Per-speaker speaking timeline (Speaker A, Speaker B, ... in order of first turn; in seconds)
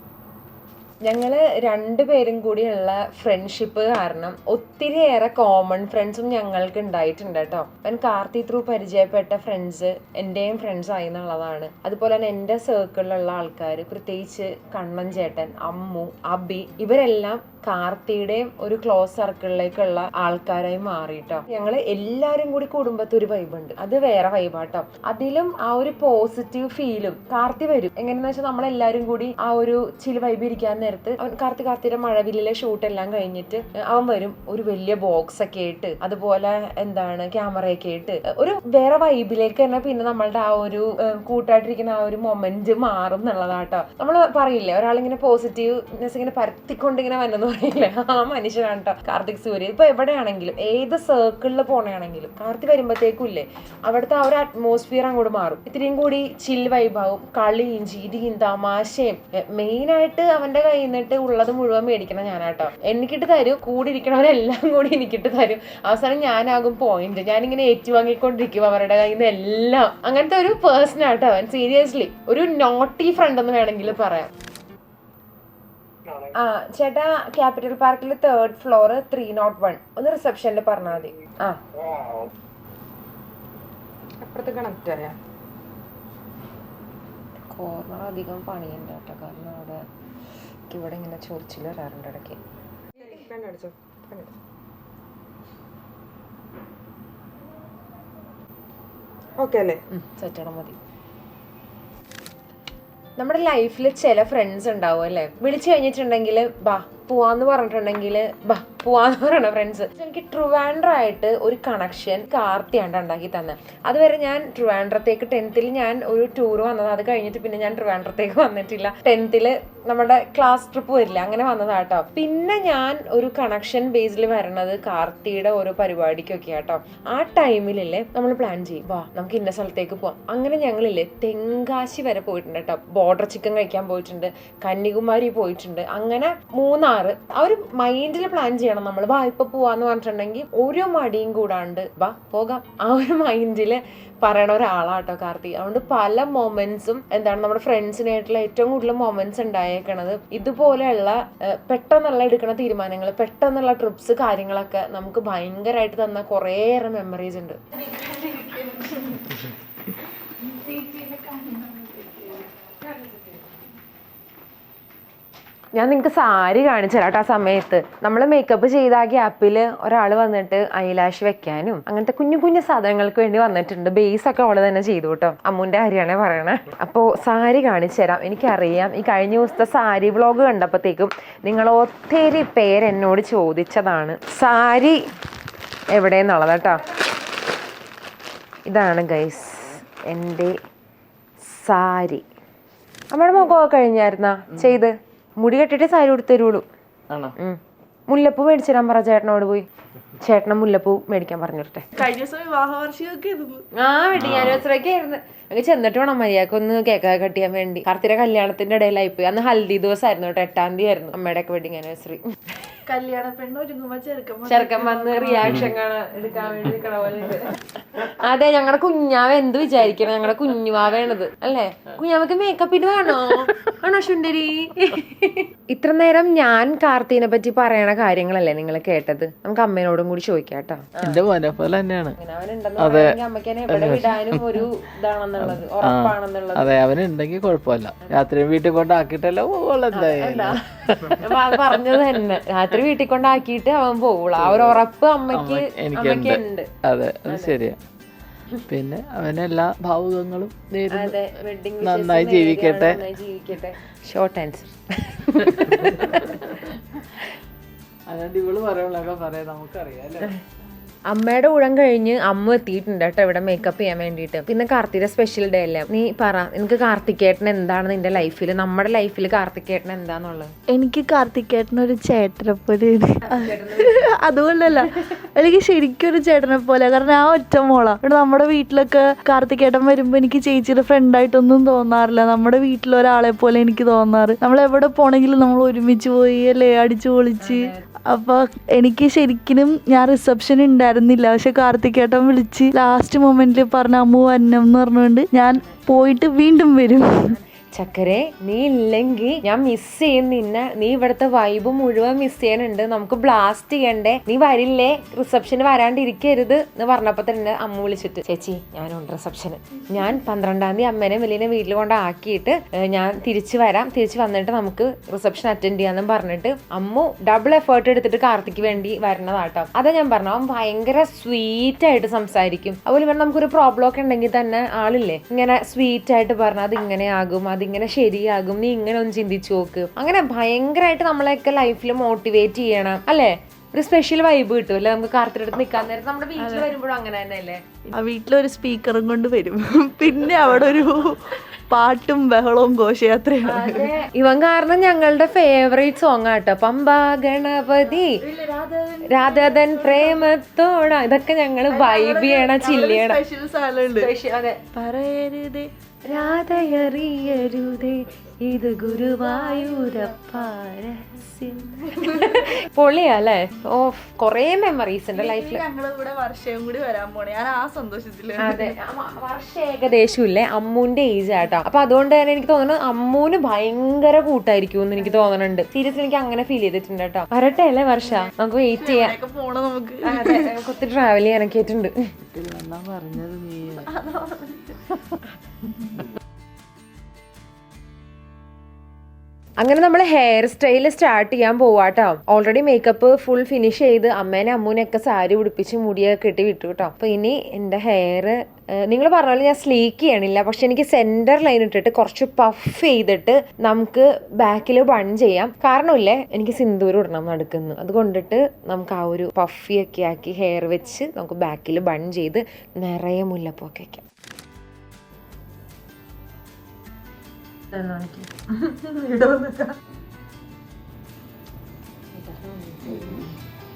Speaker A: 1.0-74.3, 76.3-81.6, 87.5-89.8, 90.7-92.4, 99.9-100.8, 103.2-157.6, 165.7-185.0, 185.9-186.8, 188.7-190.5, 191.4-192.2, 193.1-196.7, 197.4-199.7, 200.2-201.9, 203.8-212.8, 214.5-231.2, 232.2-236.8, 239.9-246.7, 247.3-247.6, 250.9-256.7, 261.1-270.5, 273.3-274.0, 287.4-287.8, 297.3-337.6, 343.4-348.2, 349.1-353.2, 353.9-354.6, 356.1-365.6, 368.4-379.2, 380.1-381.9, 389.6-414.0, 417.7-419.8
Speaker B: 84.2-85.2, 93.0-94.3, 99.4-99.8, 422.2-423.2
Speaker C: 157.8-159.4, 160.4-162.5, 201.9-203.6, 212.9-215.6, 270.7-297.2, 336.4-336.7, 337.9-343.9, 348.0-350.3, 351.7-354.1, 354.7-355.7, 358.7-360.5, 361.9-362.5, 365.1-368.7, 378.0-380.5, 383.8-384.9
Speaker D: 204.2-204.6, 231.0-232.2, 232.8-233.2, 233.7-234.6, 235.4-241.6, 244.5-244.8, 245.3-247.8, 248.7-251.2, 251.8-253.0, 258.1-260.4, 382.3-383.9